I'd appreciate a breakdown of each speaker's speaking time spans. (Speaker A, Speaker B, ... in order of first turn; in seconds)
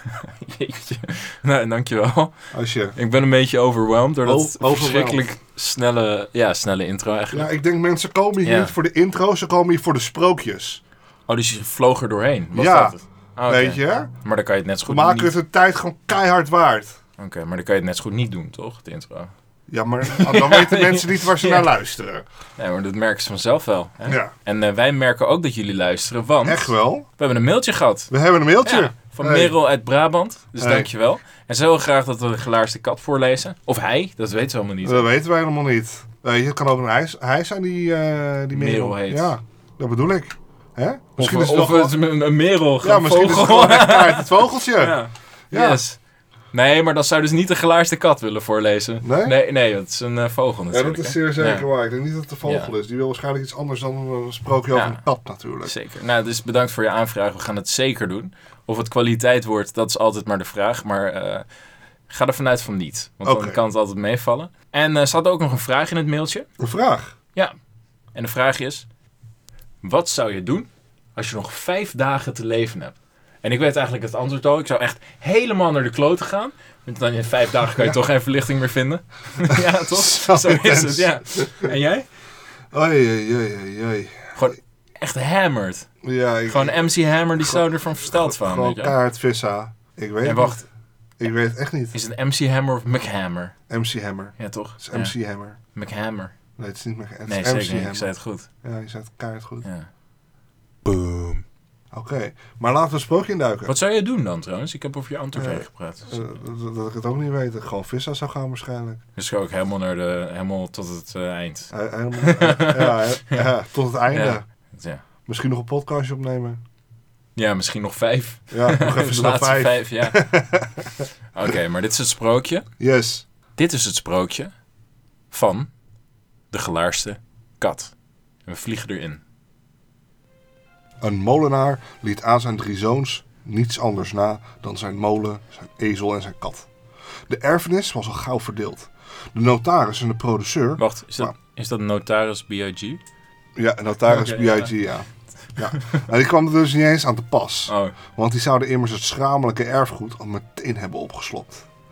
Speaker A: 0.1-2.3, 3.0-7.5, 8.4-8.7, 11.3-15.3, 17.2-19.3, 20.1-21.6, 22.6-28.1, 28.6-35.1, 38.5-39.3, 41.2-46.0, 46.5-51.7, 52.4-52.7, 54.7-55.0, 55.6-61.5, 62.1-66.5, 68.1-68.9, 69.8-82.1, 84.4-85.9, 86.5-89.0, 90.2-90.6, 91.9-93.5, 94.4-95.2, 95.7-96.3, 97.3-98.5, 99.6-99.9, 100.8-101.4, 103.7-106.2, 109.2-113.4, 114.1-115.0, 117.4-120.2, 121.3-122.7, 123.6-124.5, 125.3-125.7, 126.5-127.9, 128.5-129.2, 140.8-143.0, 144.0-144.7, 147.7-147.9
Speaker B: 2.5-3.0, 4.2-5.2, 7.3-10.8, 12.5-14.1, 14.9-17.0, 19.7-22.2, 24.1-24.3, 26.4-27.1, 28.1-29.6, 30.6-30.9, 34.8-42.0, 42.8-45.0, 45.5-45.8, 49.0-49.4, 50.7-55.7, 63.2-63.6, 66.6-67.2, 79.5-81.7, 82.7-84.5, 86.0-90.6, 91.2-92.0, 93.7-95.6, 96.6-98.1, 98.6-99.7, 101.9-103.8, 105.4-109.0, 111.7-114.5, 115.3-116.6, 118.5-121.0, 122.8-123.3, 131.0-136.7, 137.3-141.3, 143.6-151.7